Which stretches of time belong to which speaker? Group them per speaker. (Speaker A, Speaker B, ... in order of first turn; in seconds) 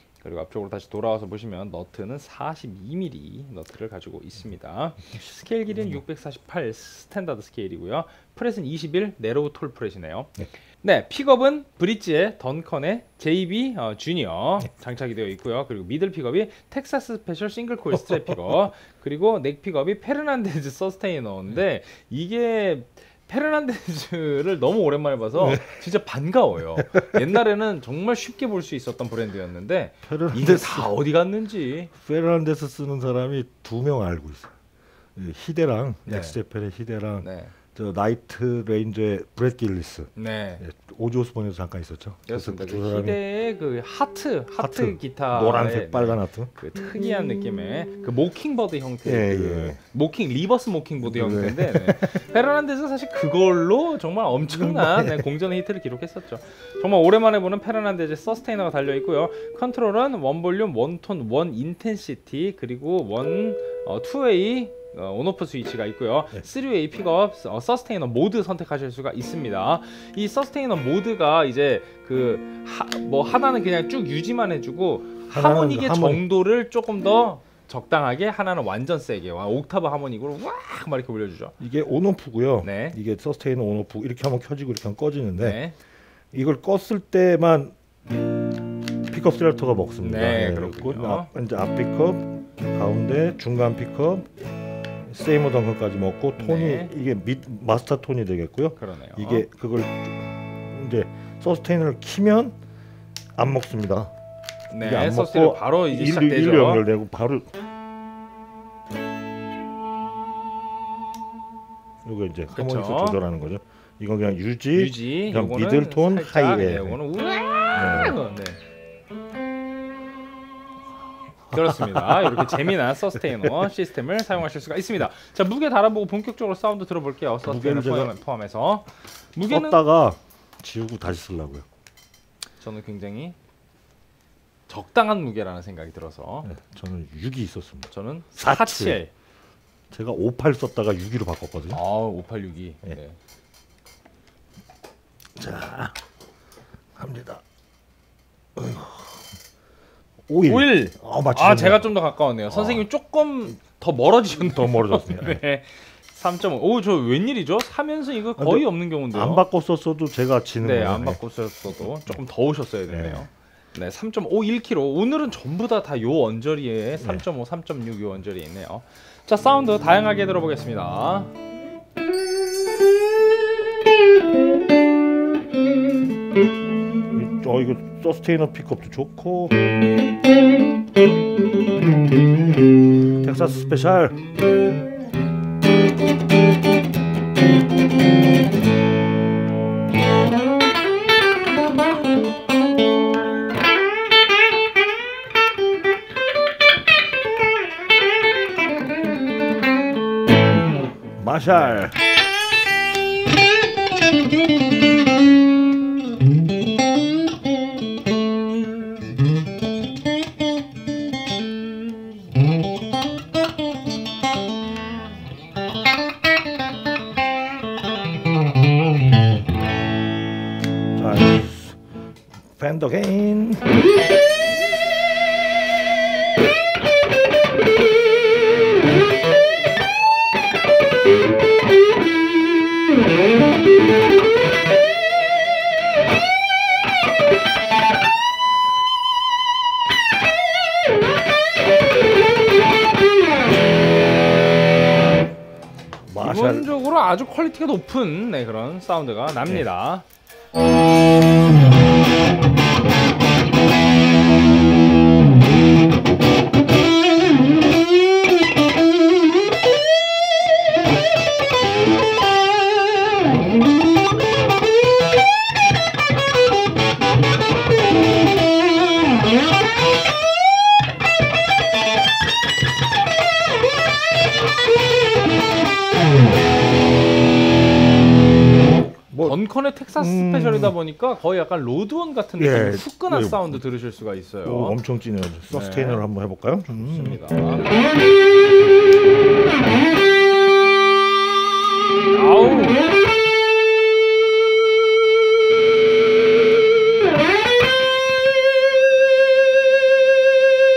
Speaker A: 0.2-31.9, 36.0-36.4, 37.2-37.5, 40.1-40.6, 42.3-81.5, 82.6-83.0, 85.4-85.8, 90.0-91.3, 96.4-96.9, 98.8-99.5, 104.7-106.8, 112.5-113.2, 114.7-118.6, 121.5-129.8, 132.6-133.3, 134.7-136.5, 137.9-139.1, 141.7-143.2, 150.4-159.4, 160.6-171.3, 246.2-250.0, 279.2-284.8, 285.5-286.0, 286.7-287.8, 292.1-292.8
Speaker B: 5.1-6.0, 17.9-18.5, 25.4-25.7, 30.0-30.9, 31.9-34.5, 35.1-43.2, 44.6-46.5, 49.0-49.8, 51.0-52.2, 54.5-55.3, 75.3-76.2, 81.6-85.6, 86.3-87.7, 89.1-94.3, 95.0-102.6, 103.4-104.1, 104.8-107.5, 112.0-117.0, 117.7-118.2, 121.5-123.5, 127.4-128.1, 129.5-131.6, 136.4-139.0, 139.9-141.8, 145.3-145.9, 146.9-147.4, 148.6-149.2, 150.3-151.9, 152.5-152.8, 154.3-155.4, 158.4-161.2, 162.9-163.2, 177.1-179.6, 183.2-184.2, 201.2-202.0, 220.9-221.8, 222.6-223.7, 246.1-246.7, 278.7-279.4, 279.9-280.7, 282.4-283.6, 284.4-287.2